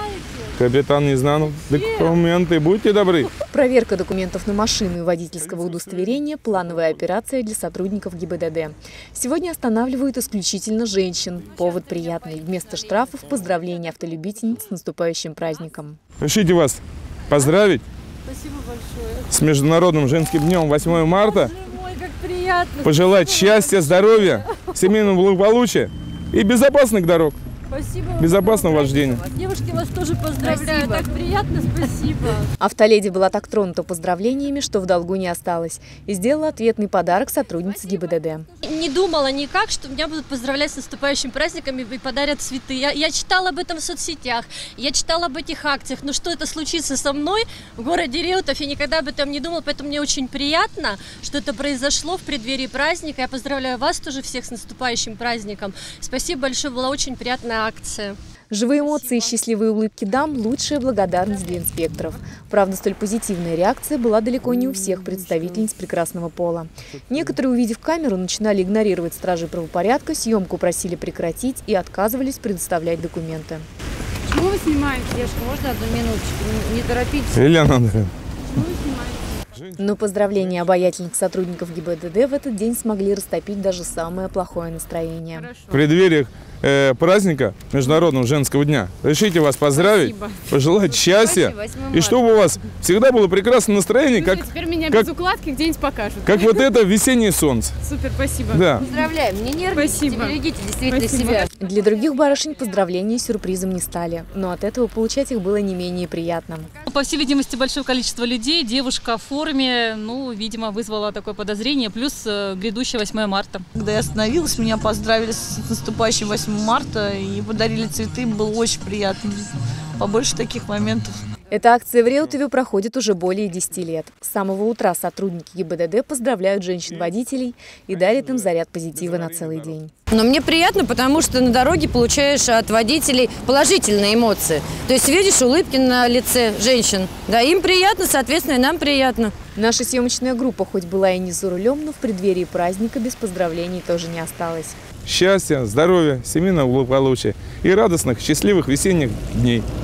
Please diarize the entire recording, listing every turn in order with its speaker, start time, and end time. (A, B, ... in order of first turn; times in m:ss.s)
0:00.6-0:03.3 A
0:03.5-0:16.0 B
0:16.2-0:17.8 A
0:18.3-0:19.0 C
0:19.3-0:21.6 A
0:21.2-0:24.7 C
0:22.8-0:27.4 A
0:27.7-0:32.5 C
0:28.2-0:29.2 A
0:32.6-0:38.5 B
0:38.6-0:58.2 C
0:58.5-1:13.7 B
0:58.9-0:59.1 C
1:14.4-1:15.0 D
1:15.1-1:17.4 E
1:17.3-1:18.1 A
1:18.6-1:19.1 D
1:19.8-1:25.5 B
1:25.7-1:35.1 A
1:29.9-1:30.3 D
1:31.1-1:32.2 E
1:34.3-1:36.4 D
1:36.2-1:37.8 A
1:37.9-1:38.8 D
1:38.5-1:38.9 A
1:38.8-1:41.5 E
1:39.8-1:40.4 D
1:40.9-1:41.4 D
1:41.5-1:46.7 B
1:46.9-1:53.7 F
1:53.7-2:01.2 G
2:01.5-2:09.9 B
2:10.1-2:19.4 E
2:19.6-2:24.8 B
2:25.1-2:29.7 A